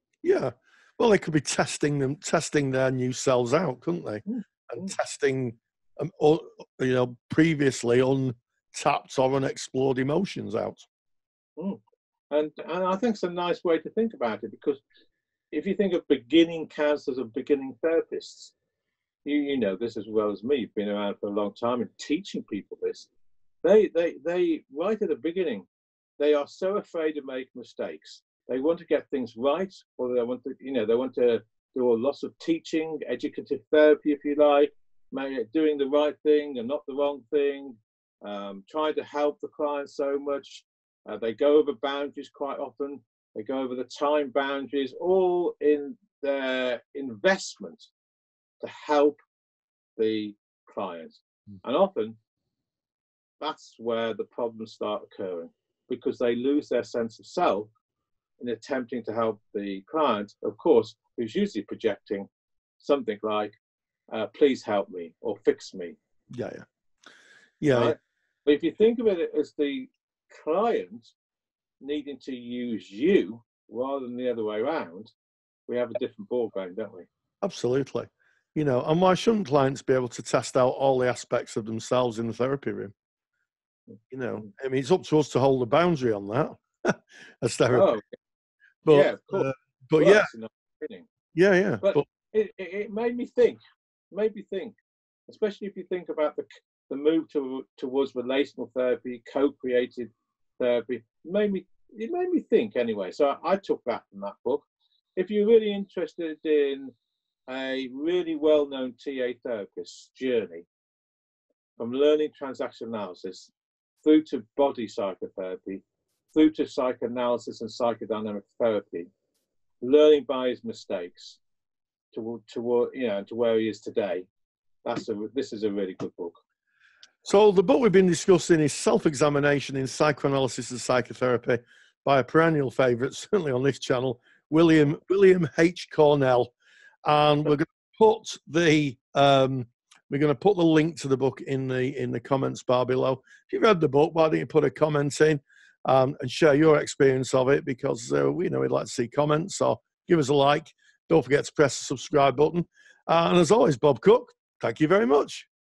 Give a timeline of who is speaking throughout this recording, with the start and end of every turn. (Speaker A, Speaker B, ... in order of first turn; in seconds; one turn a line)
Speaker A: 0.2-10.8
Speaker B: 4.2-5.0
Speaker B: 12.3-14.8
Speaker B: 15.5-18.5
Speaker B: 19.2-23.1
Speaker B: 23.6-25.6
Speaker B: 26.2-47.9
Speaker B: 48.6-49.2
Speaker B: 50.0-52.1
Speaker B: 53.4-57.7
Speaker B: 58.4-62.3
Speaker B: 62.8-63.6
Speaker B: 64.1-66.0
Speaker A: 66.3-66.6
Speaker A: 67.6-67.9
Speaker B: 67.7-71.1
Speaker B: 71.8-75.1
Speaker B: 75.7-77.1
Speaker A: 77.4-82.9
Speaker B: 83.9-84.4
Speaker A: 84.1-87.9
Speaker B: 87.7-88.0
Speaker A: 88.8-90.3
Speaker B: 88.9-91.1
Speaker A: 91.3-92.0
Speaker B: 91.8-93.6
Speaker B: 94.1-104.6
Speaker B: 105.2-106.9
Speaker B: 107.5-110.7
Speaker B: 111.8-113.5
Speaker B: 114.0-115.8
Speaker B: 116.3-119.1
Speaker B: 119.8-121.4
Speaker B: 122.1-124.3
Speaker B: 124.8-126.4
Speaker A: 127.2-136.5
Speaker A: 137.0-155.5